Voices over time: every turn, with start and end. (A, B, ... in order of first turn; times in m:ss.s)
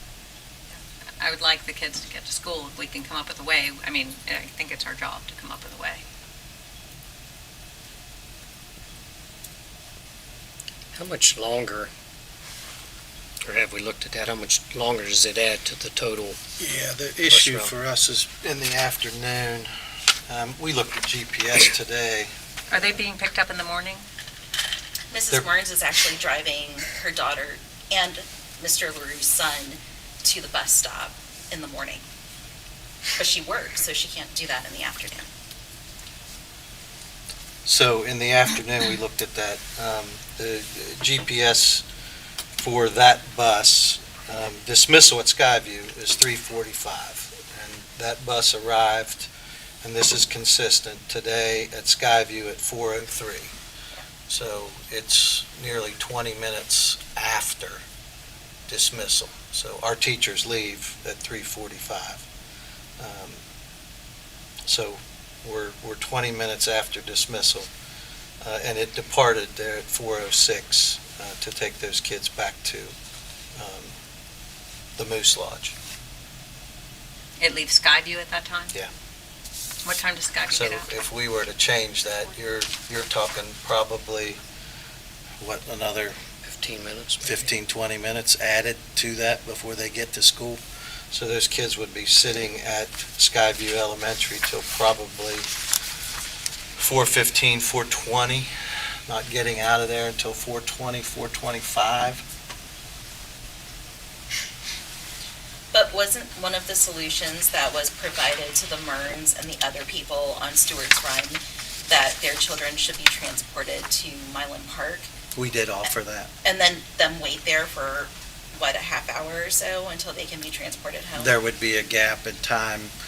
0:01.2-0:06.0 A
0:10.9-0:11.9 B
0:13.4-0:16.4 B
0:16.6-0:19.7 C
0:17.3-0:17.7 B
0:20.3-0:22.3 C
0:22.7-0:24.0 A
0:25.1-0:32.0 D
0:33.2-0:35.3 D
0:37.6-0:41.8 C
0:42.6-0:49.3 C
0:49.8-0:53.5 C
0:54.3-0:57.8 C
0:58.7-1:02.2 C
1:03.0-1:03.4 C
1:04.6-1:07.7 C
1:08.4-1:12.9 C
1:13.6-1:13.9 C
1:15.0-1:15.7 C
1:17.4-1:18.7 A
1:19.8-1:20.9 A
1:20.5-1:24.4 C
1:25.4-1:26.2 C
1:26.4-1:27.5 B
1:27.2-1:30.6 C
1:31.1-1:35.5 C
1:36.8-1:38.5 C
1:39.1-1:42.2 C
1:45.7-1:55.1 D
1:55.3-1:56.3 C
1:56.4-2:01.3 D
2:01.2-2:02.9 C